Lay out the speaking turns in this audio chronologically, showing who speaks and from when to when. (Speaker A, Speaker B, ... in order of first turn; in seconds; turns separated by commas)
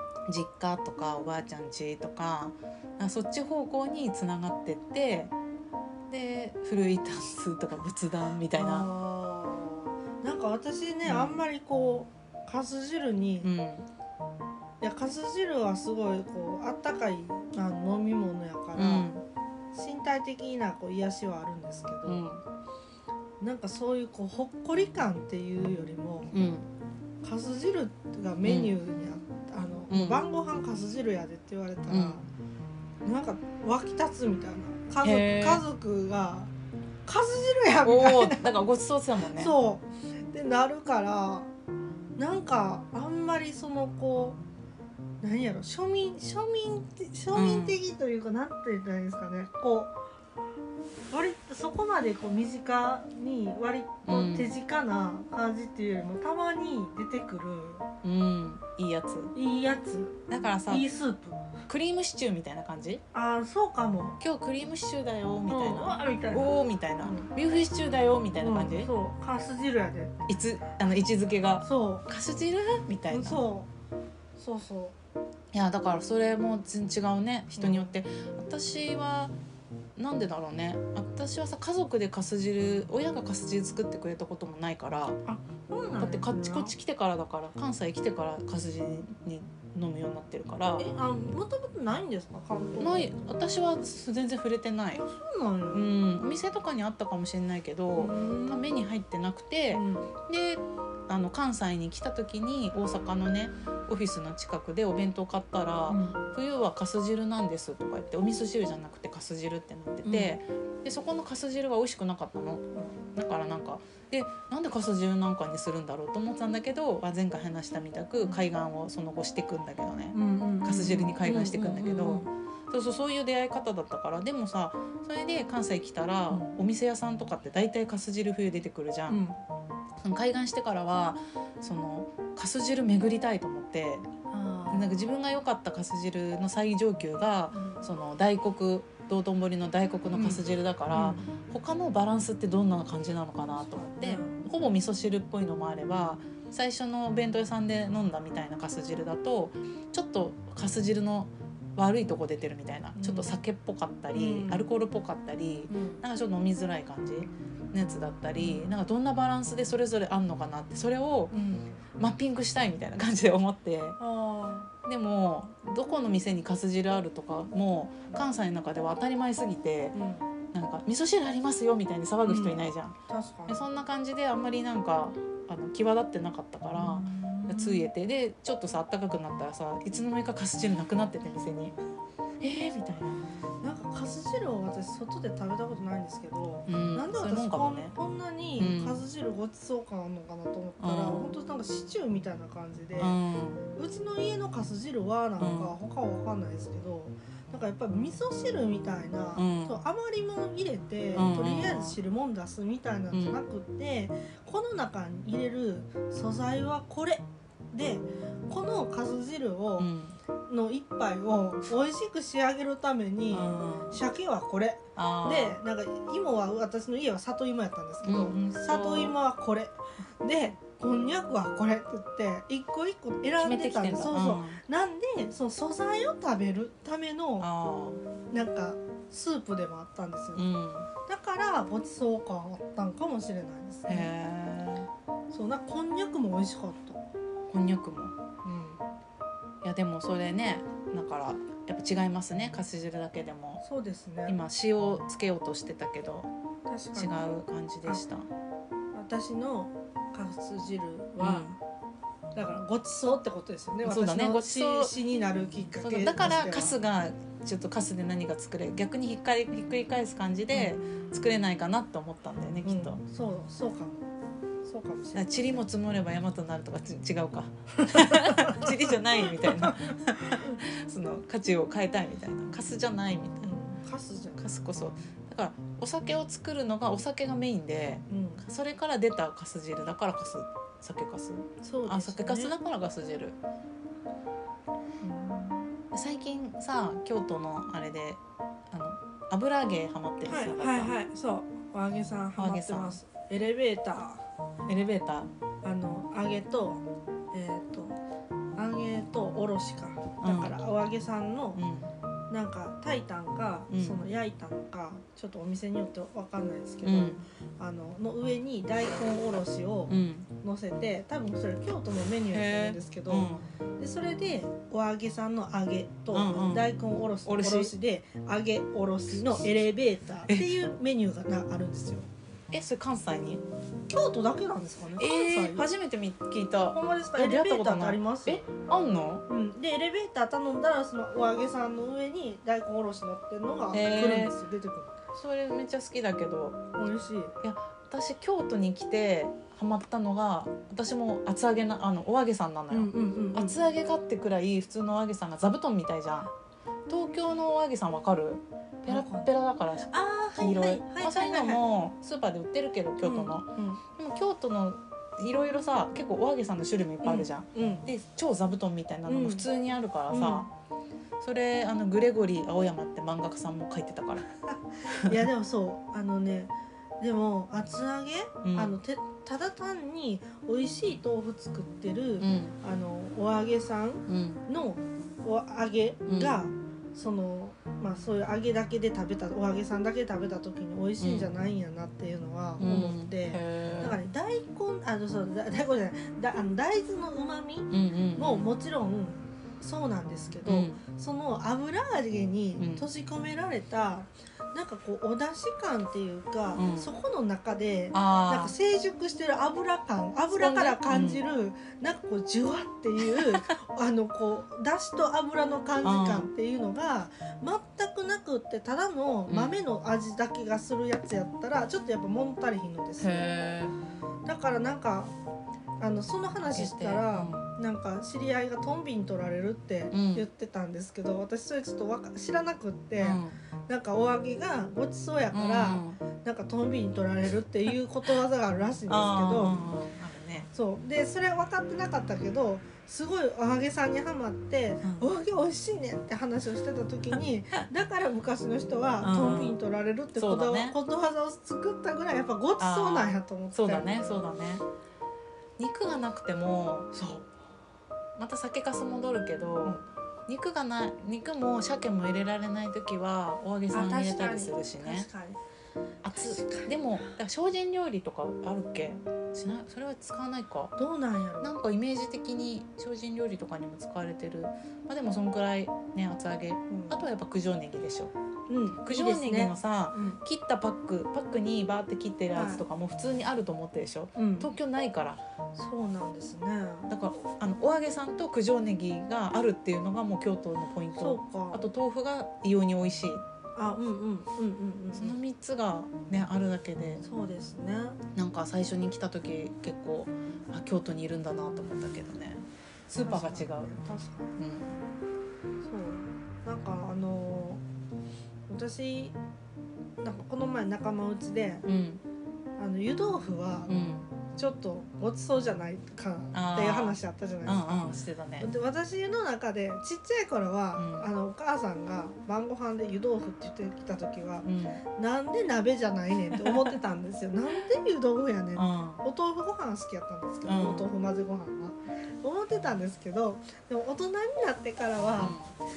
Speaker A: 0.3-5.3, Speaker A: 6.1-8.9, Speaker B: 8.5-13.5, Speaker A: 11.1-11.4, Speaker A: 13.4-13.9, Speaker B: 14.8-19.2, Speaker A: 18.8-19.2, Speaker B: 19.7-22.2, Speaker A: 22.1-22.4, Speaker B: 23.4-26.4, Speaker A: 26.3-26.7, Speaker B: 27.2-32.2, Speaker A: 28.4-28.8, Speaker A: 29.9-30.2, Speaker A: 31.9-32.2, Speaker B: 33.0-36.5, Speaker A: 35.0-35.6, Speaker B: 37.1-38.5, Speaker A: 37.8-39.5, Speaker B: 39.3-41.5, Speaker B: 42.2-44.4, Speaker B: 45.2-49.9, Speaker A: 47.3-47.8, Speaker B: 51.1-57.9, Speaker A: 54.1-54.5, Speaker A: 58.0-59.3, Speaker B: 59.4-61.6, Speaker A: 60.3-60.9, Speaker A: 61.7-63.0, Speaker B: 63.1-64.2, Speaker A: 64.2-68.9, Speaker B: 65.5-67.3, Speaker B: 68.4-70.2, Speaker A: 70.3-73.4, Speaker B: 71.6-72.1, Speaker B: 73.1-73.7, Speaker B: 74.4-75.0, Speaker A: 75.5-79.3, Speaker B: 77.6-77.9, Speaker A: 80.0-85.2, Speaker B: 85.3-86.8, Speaker A: 86.0-90.9, Speaker B: 90.8-93.2, Speaker A: 92.8-95.0, Speaker B: 95.0-95.8, Speaker A: 95.7-129.2, Speaker B: 98.0-98.7, Speaker B: 99.7-100.1, Speaker B: 105.9-106.2, Speaker B: 110.0-110.4, Speaker B: 120.1-122.3, Speaker B: 126.3-126.6, Speaker B: 129.1-129.4, Speaker A: 130.0-134.1, Speaker B: 134.3-135.0, Speaker A: 134.7-161.3, Speaker B: 137.5-137.8, Speaker B: 140.1-141.3, Speaker B: 143.7-144.5, Speaker B: 152.9-153.3, Speaker B: 154.1-154.7, Speaker B: 155.7-156.0, Speaker B: 158.4-158.7, Speaker B: 161.3-161.8, Speaker A: 162.0-164.0, Speaker B: 164.0-164.7, Speaker A: 164.8-170.0, Speaker B: 169.9-170.3, Speaker A: 170.5-181.8, Speaker B: 172.2-173.7, Speaker B: 176.8-177.9, Speaker A: 182.4-183.3, Speaker B: 183.6-193.2, Speaker A: 186.7-187.9, Speaker A: 188.6-189.0, Speaker A: 190.8-191.3, Speaker A: 193.0-193.6, Speaker B: 193.8-209.9, Speaker A: 195.4-195.8, Speaker A: 199.4-199.8, Speaker A: 201.2-202.0, Speaker A: 203.1-203.4, Speaker A: 209.8-210.2, Speaker B: 210.5-227.5, Speaker A: 213.3-214.0, Speaker A: 215.0-215.6, Speaker A: 218.0-219.2, Speaker A: 223.4-224.6, Speaker A: 227.4-228.0, Speaker B: 228.3-230.5, Speaker A: 230.3-230.9, Speaker B: 231.1-234.1, Speaker A: 233.9-234.9, Speaker B: 235.3-237.0, Speaker A: 237.5-238.2, Speaker B: 238.4-238.8, Speaker A: 239.6-243.6, Speaker B: 243.6-244.4, Speaker A: 244.3-246.3, Speaker B: 246.7-247.3, Speaker A: 247.0-248.3, Speaker B: 248.9-251.6, Speaker A: 251.2-251.5, Speaker B: 252.3-256.8, Speaker A: 253.8-254.9, Speaker A: 255.8-263.0, Speaker B: 260.5-260.8, Speaker B: 262.6-264.1, Speaker B: 264.6-265.6, Speaker A: 265.1-273.6, Speaker B: 267.8-270.6, Speaker B: 273.4-274.5, Speaker A: 274.4-283.4, Speaker B: 278.1-278.5, Speaker B: 281.6-282.6, Speaker B: 285.0-285.7, Speaker A: 285.9-290.9, Speaker B: 290.2-294.3, Speaker A: 292.4-293.0, Speaker A: 294.7-295.3, Speaker B: 295.6-298.0, Speaker B: 298.6-301.6, Speaker A: 300.2-300.6, Speaker A: 301.6-301.9, Speaker B: 302.3-322.1, Speaker A: 303.7-304.0, Speaker A: 306.8-307.2, Speaker A: 309.9-310.3, Speaker A: 312.3-313.4, Speaker A: 316.1-316.7, Speaker A: 317.2-317.7, Speaker A: 320.3-320.5, Speaker A: 322.5-323.4, Speaker B: 323.9-325.7, Speaker A: 325.0-329.3, Speaker B: 326.7-328.5, Speaker B: 329.3-335.0, Speaker A: 333.7-334.3, Speaker A: 335.1-336.6, Speaker B: 336.8-337.4, Speaker A: 337.4-346.3, Speaker B: 342.7-343.6, Speaker A: 346.9-360.5, Speaker B: 348.9-349.3, Speaker B: 349.9-351.6, Speaker B: 353.0-353.8, Speaker B: 357.0-357.9, Speaker B: 359.1-359.5, Speaker B: 360.1-360.5, Speaker A: 361.2-364.3, Speaker B: 364.4-413.3, Speaker A: 364.9-365.3, Speaker A: 368.4-368.8, Speaker A: 372.2-372.6, Speaker A: 374.1-374.4, Speaker A: 376.1-376.4, Speaker A: 381.0-381.3, Speaker A: 382.6-384.0, Speaker A: 387.7-388.5, Speaker A: 390.5-390.8, Speaker A: 392.6-392.9, Speaker A: 396.6-396.9, Speaker A: 397.9-398.6, Speaker A: 400.3-401.2, Speaker A: 403.1-403.4, Speaker A: 405.8-406.3, Speaker A: 409.3-409.6, Speaker A: 413.0-413.8, Speaker B: 414.2-415.1, Speaker B: 415.8-429.6, Speaker A: 416.5-417.4, Speaker A: 419.9-420.2, Speaker A: 423.0-423.4, Speaker A: 425.3-426.0, Speaker A: 428.9-430.5, Speaker B: 430.5-444.1, Speaker A: 434.8-435.1, Speaker A: 439.0-439.6, Speaker A: 440.2-440.8, Speaker A: 442.6-444.6, Speaker A: 445.6-447.2, Speaker A: 448.2-455.1, Speaker B: 453.7-455.4, Speaker A: 456.0-460.7, Speaker B: 456.1-457.2, Speaker B: 460.8-461.5, Speaker A: 461.4-468.1, Speaker B: 466.7-467.0, Speaker B: 468.5-470.2, Speaker A: 468.8-475.2, Speaker B: 472.3-472.6, Speaker B: 474.2-474.5, Speaker B: 475.6-476.9, Speaker A: 476.9-483.2, Speaker B: 480.9-481.7, Speaker B: 483.6-485.2, Speaker A: 484.9-487.0, Speaker B: 487.0-488.0, Speaker A: 488.1-493.8, Speaker B: 493.0-494.4, Speaker A: 494.4-494.7, Speaker B: 495.6-497.6, Speaker B: 498.5-499.2, Speaker B: 500.0-501.7, Speaker A: 501.6-502.0, Speaker B: 502.6-503.7, Speaker A: 503.7-504.1, Speaker B: 504.4-525.4, Speaker A: 506.3-508.5, Speaker A: 510.8-511.1, Speaker A: 514.5-514.8, Speaker A: 516.3-516.8, Speaker A: 518.6-519.0, Speaker A: 520.5-520.9, Speaker A: 525.2-525.5